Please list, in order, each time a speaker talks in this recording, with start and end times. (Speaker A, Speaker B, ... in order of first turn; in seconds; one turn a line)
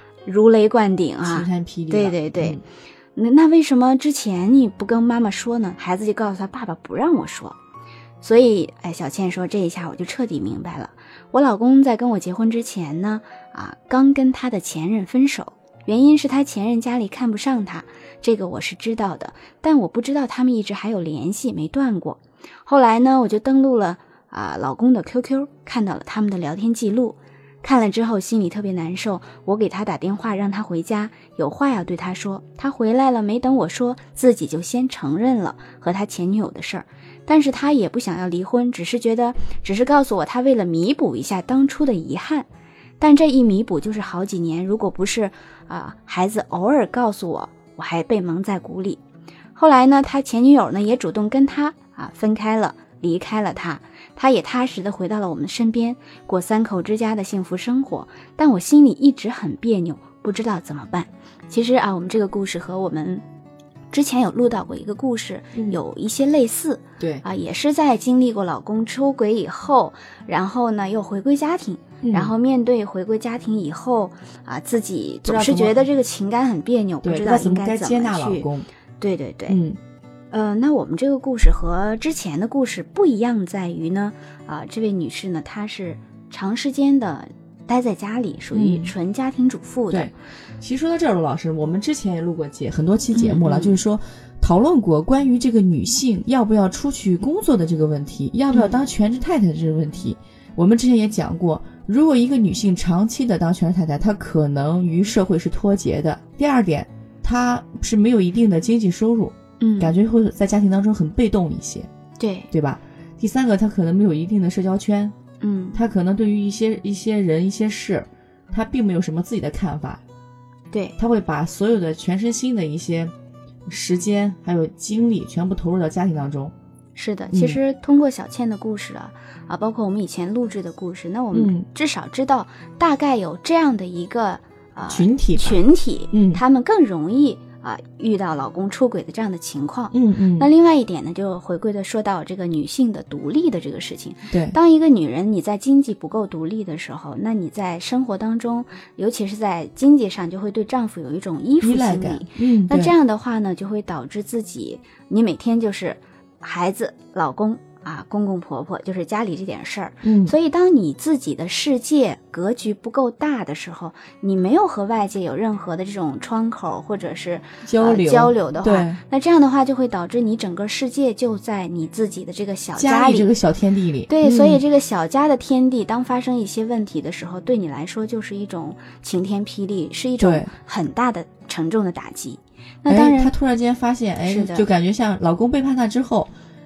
Speaker A: 0.2-2.6
Speaker B: 1.2-2.6
Speaker A: 3.1-7.6
Speaker A: 8.2-42.5
Speaker A: 43.0-49.0
Speaker A: 49.5-63.2
Speaker A: 63.9-78.5
Speaker B: 72.0-72.3
Speaker B: 75.2-75.8
Speaker B: 77.0-78.7
Speaker A: 79.0-79.6
Speaker B: 79.5-79.8
Speaker A: 80.3-90.1
Speaker B: 88.5-88.9
Speaker B: 89.9-111.9
Speaker A: 93.1-93.8
Speaker A: 98.5-98.8
Speaker A: 109.6-110.0
Speaker A: 112.2-112.5
Speaker B: 112.5-115.1
Speaker A: 115.4-115.8
Speaker B: 115.7-120.0
Speaker A: 120.7-121.0
Speaker B: 121.0-123.1
Speaker B: 123.7-126.5
Speaker A: 126.9-173.3
Speaker B: 127.3-127.6
Speaker B: 131.3-131.7
Speaker B: 134.9-135.6
Speaker B: 136.1-136.4
Speaker B: 139.9-140.5
Speaker B: 144.3-144.6
Speaker B: 151.6-152.9
Speaker B: 160.0-160.3
Speaker B: 167.6-169.0
Speaker B: 172.8-174.6
Speaker A: 174.1-183.3
Speaker B: 180.2-180.5
Speaker B: 182.9-186.3
Speaker A: 184.3-184.6